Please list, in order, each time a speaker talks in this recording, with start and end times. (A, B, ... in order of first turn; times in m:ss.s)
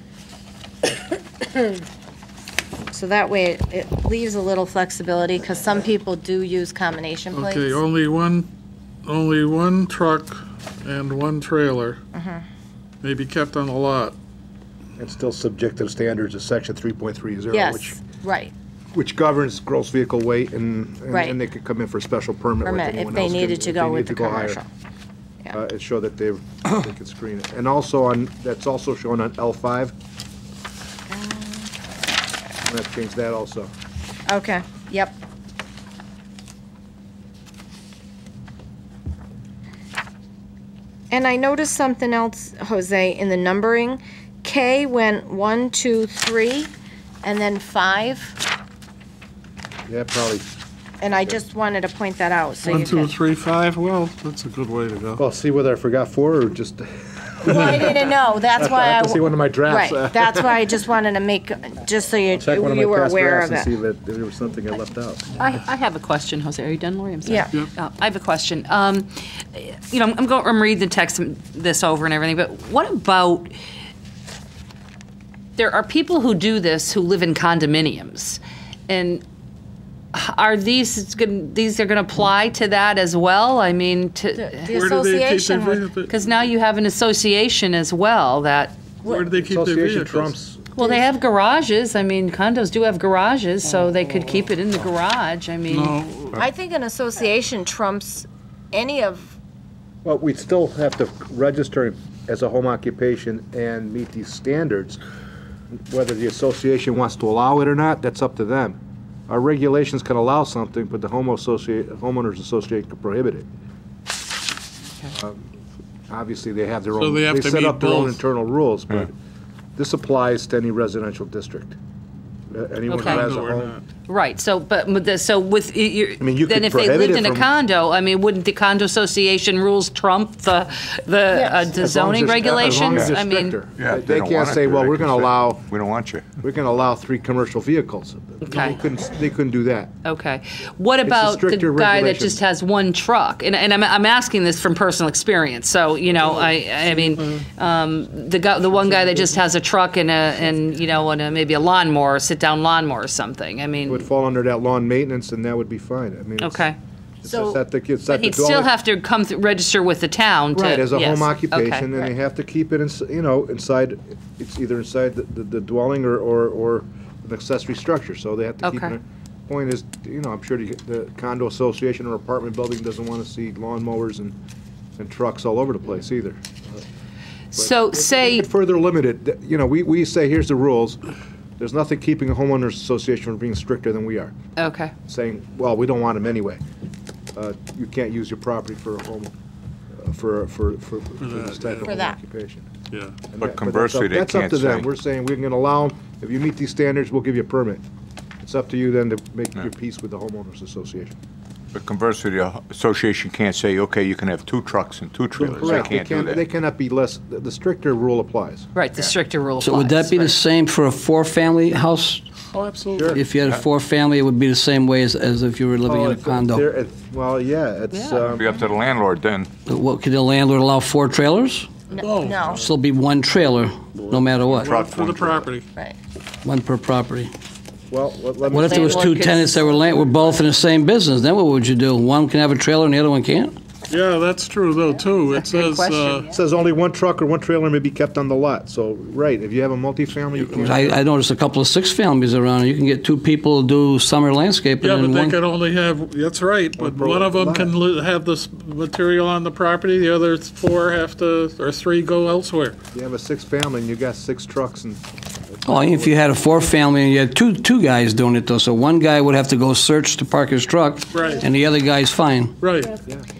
0:02.9-0:07.8 A
0:07.3-0:08.5 B
0:09.0-0:12.0 B
0:12.1-0:12.4 A
0:13.0-0:14.1 B
0:15.0-0:18.0 C
0:17.5-0:18.5 A
0:18.9-0:24.6 C
0:21.1-0:21.4 A
0:22.6-0:24.7 A
0:25.5-0:29.9 C
0:31.1-0:31.7 A
0:32.6-0:33.7 C
0:34.3-0:35.2 A
0:41.1-0:46.7 A
0:47.2-0:48.4 A
0:49.9-0:50.4 C
0:51.0-0:53.1 A
0:52.6-0:55.2 B
0:55.2-1:00.6 C
0:57.4-1:03.7 A
1:02.4-1:05.2 C
1:05.4-1:13.5 D
1:07.2-1:07.5 A
1:15.6-1:19.2 D
1:20.1-1:24.7 D
1:24.4-1:25.8 A
1:24.7-1:26.2 B
1:26.1-1:28.8 D
1:29.0-1:30.3 B
1:29.4-1:30.6 C
1:30.7-1:36.0 D
1:35.7-1:36.4 B
1:36.3-1:39.4 A
1:40.0-1:45.0 C
1:45.7-1:53.5 C
1:55.1-1:55.4 C
1:56.1-1:59.1 C
1:56.9-1:58.2 B
1:59.8-2:01.8 C
2:02.5-2:03.7 C
2:02.9-2:03.8 B
2:03.0-2:03.2 D
2:04.1-2:13.6 D
2:06.2-2:07.5 C
2:11.3-2:11.7 A
2:11.7-2:15.7 C
2:12.9-2:13.2 E
2:13.8-2:16.4 E
2:16.4-2:19.9 C
2:18.5-2:18.8 D
2:20.0-2:34.1 D
2:21.0-2:22.4 C
2:27.0-2:27.4 B
2:33.8-2:36.6 C
2:36.4-2:36.8 D
2:37.2-2:38.7 C
2:37.2-2:37.6 A
2:38.0-2:42.0 D
2:40.5-2:54.3 C
2:48.6-2:48.9 D
2:55.0-2:56.8 C
2:57.5-2:58.5 D
2:57.6-3:01.0 C
3:01.6-3:04.4 C
3:04.6-3:04.9 D
3:05.1-3:06.6 C
3:07.3-3:09.3 C
3:10.0-3:12.7 C
3:11.2-3:12.0 B
3:11.8-3:12.2 A
3:12.9-3:13.3 B
3:13.3-3:17.8 C
3:13.4-3:14.9 E
3:18.4-3:21.1 C
3:21.7-3:26.5 E
3:25.4-3:28.7 C
3:25.6-3:25.8 B
3:28.7-3:30.4 D
3:29.6-3:32.2 F
3:32.5-3:33.2 B
3:32.9-3:33.2 C
3:33.1-3:36.6 F
3:35.8-3:38.6 C
3:37.9-3:38.3 D
3:38.2-3:39.5 E
3:39.6-3:41.7 F
3:41.9-3:42.7 A
3:42.0-3:42.5 B
3:42.5-3:44.7 F
3:44.0-3:45.6 B
3:44.4-3:45.5 E
3:46.4-3:47.3 F
3:47.9-3:49.1 C
3:48.5-3:53.6 F
3:48.5-3:49.9 D
3:53.9-3:56.3 B
3:55.4-3:56.2 D
3:56.3-4:00.9 C
4:00.5-4:05.4 F
4:04.8-4:12.8 B
4:06.8-4:07.7 C
4:12.9-4:15.0 C
4:15.5-4:16.2 C
4:15.7-4:22.6 F
4:21.1-4:21.4 B
4:22.6-4:22.9 B